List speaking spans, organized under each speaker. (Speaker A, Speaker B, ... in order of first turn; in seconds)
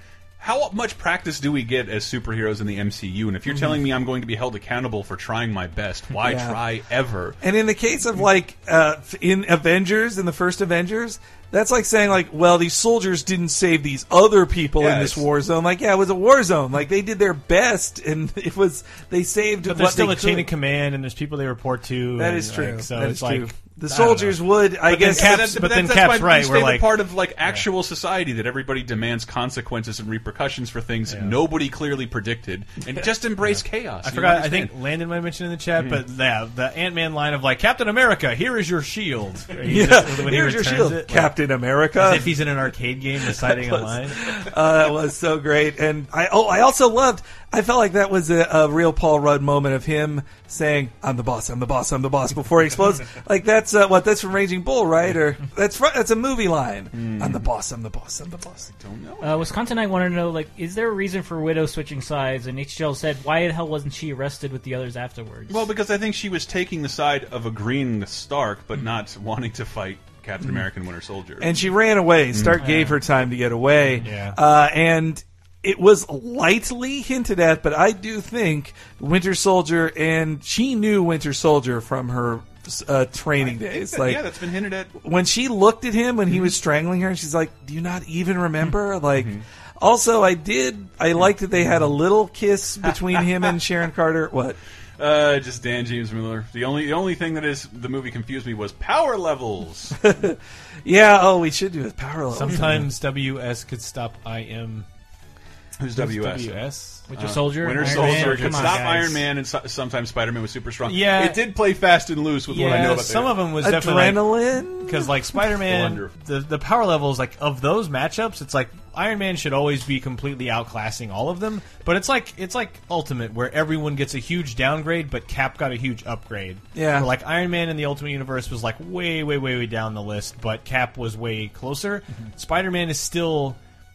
Speaker A: 0.4-7.3, 14.8-15.2, 24.9-34.7, 56.9-57.5, 58.8-59.4, 65.5-71.5, 72.3-72.6, 83.4-84.9, 95.0-100.0, 105.8-113.4, 115.6-116.1
Speaker B: 6.2-6.6, 7.4-20.5, 22.1-25.5, 39.6-42.4, 43.3-58.7, 71.4-84.2, 84.9-94.6, 100.0-102.8, 113.6-115.1, 126.7-127.1
Speaker C: 19.6-27.6, 31.1-31.4, 33.4-41.3, 42.0-44.4, 74.0-74.4, 102.3-104.8, 105.9-107.1, 107.7-109.2, 110.8-111.5, 112.5-133.6
Speaker D: 59.2-65.7, 72.6-72.9, 107.1-109.1